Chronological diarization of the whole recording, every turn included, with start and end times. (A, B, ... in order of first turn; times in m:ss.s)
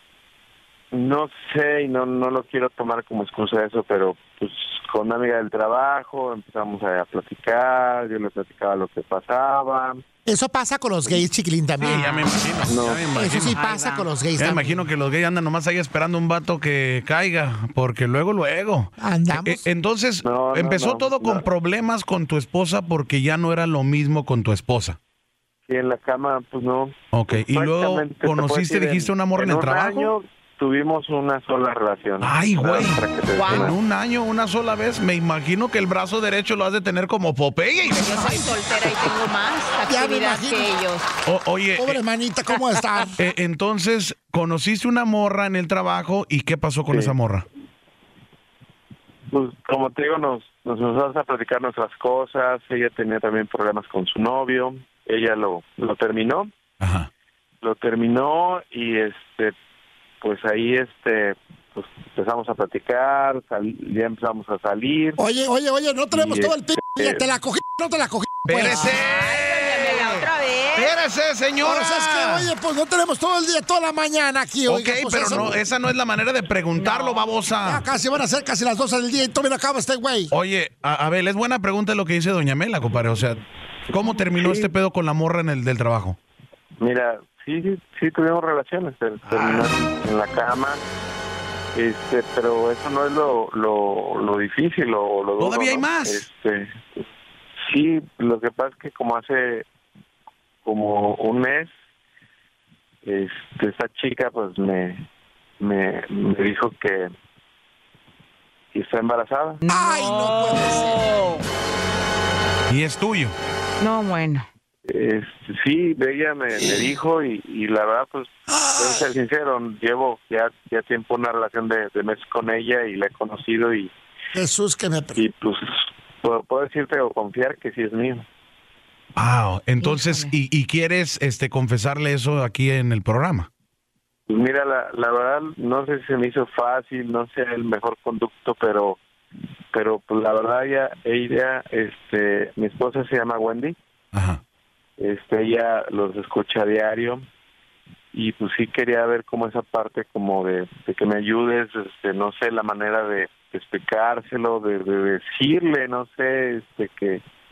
0:00.9-0:10.0 A
0:10.2-0:12.1 B
0:11.8-0:13.6 C
0:11.8-0:12.3 D
0:12.6-0:13.0 A
0:13.1-0:14.8 B
0:13.4-0:14.1 D
0:14.4-0:25.0 C
0:19.0-0:19.6 B
0:20.2-0:21.5 A
0:25.7-0:33.8 A
0:27.1-0:30.1 C
0:32.2-0:38.4 C
0:33.4-0:33.7 D
0:37.9-0:41.1 D
0:39.8-0:40.7 B
0:41.2-0:42.0 C
0:41.8-0:43.2 B
0:43.2-0:47.5 C
0:46.9-0:47.1 A
0:49.3-0:56.5 A
0:56.8-0:57.1 C
0:57.6-0:59.5 A
1:00.2-1:05.2 A
1:05.2-1:09.0 B
1:06.1-1:07.3 A
1:08.5-1:12.5 C
1:08.6-1:11.0 D
1:11.6-1:15.6 B
1:14.7-1:17.8 C
1:16.7-1:17.3 D
1:17.6-1:20.3 B
1:20.3-1:26.2 C
1:24.3-1:24.7 A
1:26.8-1:30.8 A
1:29.2-1:29.7 C
1:31.8-1:36.7 A
1:35.4-1:36.2 C
1:37.6-1:39.7 A
1:40.6-1:41.7 A
1:43.0-1:45.1 A
1:45.6-1:47.1 A
1:48.7-1:49.6 A
1:49.6-1:51.4 D
1:49.7-1:51.1 B
1:52.7-1:53.3 C
1:53.8-1:54.5 D
1:54.8-2:03.9 A
1:58.5-1:59.0 B
2:04.3-2:05.2 B
2:05.2-2:08.2 A
2:09.2-2:13.5 C
2:09.8-2:10.3 D
2:14.3-2:19.0 A
2:19.7-2:23.8 A
2:24.1-2:24.4 C
2:25.0-2:27.2 A
2:28.1-2:37.2 A